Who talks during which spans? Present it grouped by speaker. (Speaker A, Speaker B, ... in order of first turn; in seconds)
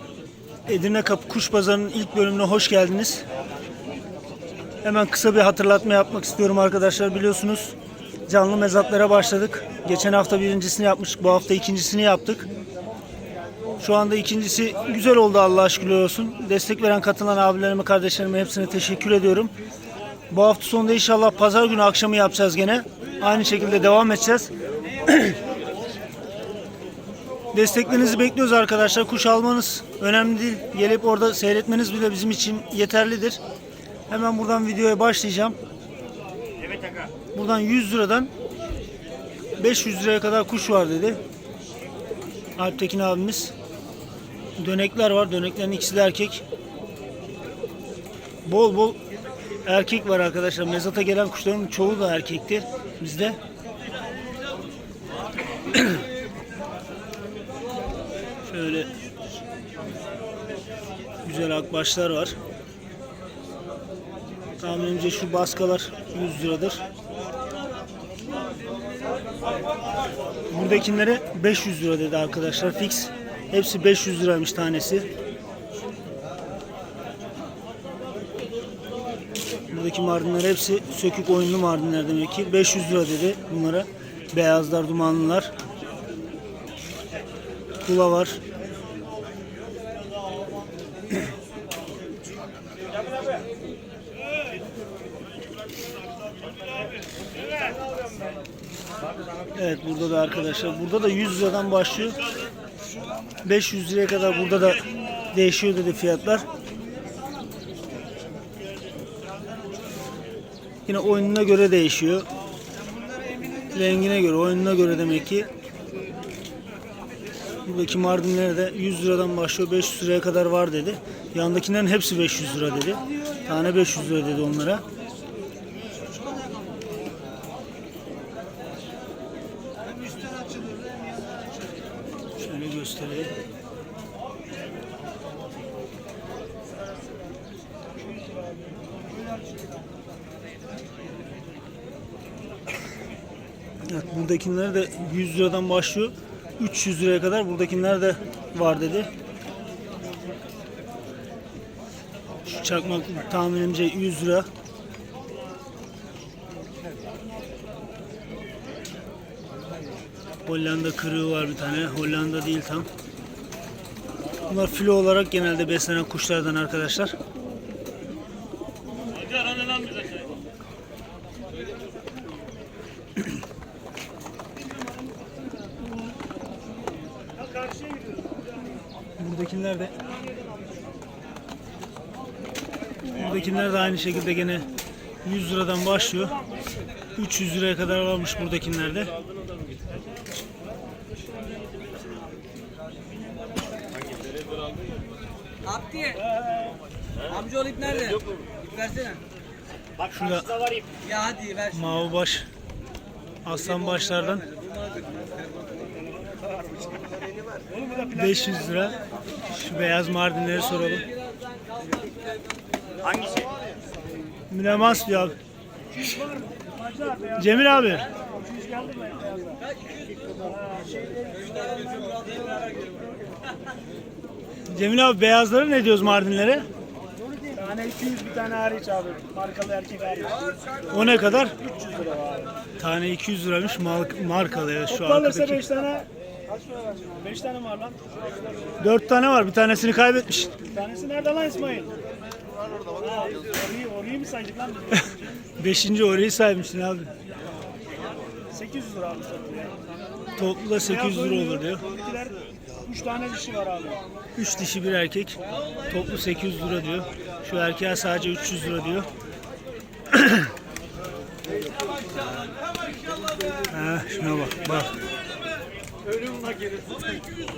Speaker A: 0.7-3.2, 4.8-7.7, 8.3-12.4, 13.8-19.5, 20.3-24.5, 25.1-25.4, 27.5-33.4, 34.1-35.6, 37.3-38.3, 39.6-41.2, 42.6-43.5, 44.6-46.4, 48.4-49.0, 49.6-53.4, 58.5-58.9, 61.2-62.4, 64.6-66.8, 70.5-75.1, 79.7-85.5, 87.8-88.4, 99.5-102.2, 103.4-106.5, 110.9-112.3, 113.7-115.5, 117.6-124.8, 132.4-133.3, 143.8-149.1, 152.4-154.5, 160.4-162.9, 164.4-167.1, 179.2-179.9, 183.1-184.7, 185.2-186.4, 187.1-189.1, 200.1-200.7, 201.7-202.5, 203.4-204.4, 208.1-211.0, 214.5-215.4, 217.3-218.1, 224.7-226.7, 230.9-231.5, 232.8-235.7, 238.8-240.6, 245.6-247.1, 250.3-251.8, 254.4-259.1, 260.1-260.5, 263.7-264.9
Speaker B: 130.0-130.8, 195.6-196.3, 197.2-199.2, 201.0-202.1, 203.5-206.0, 213.1-213.4, 219.9-220.3, 221.3-222.9, 261.7-262.5, 266.2-267.2
Speaker C: 177.4-178.4, 207.7-208.7, 216.0-217.6, 218.2-219.6, 220.4-221.4, 227.5-230.4, 231.6-232.5, 235.0-237.9, 240.6-241.9, 243.0-245.0, 248.5-249.8, 250.9-254.0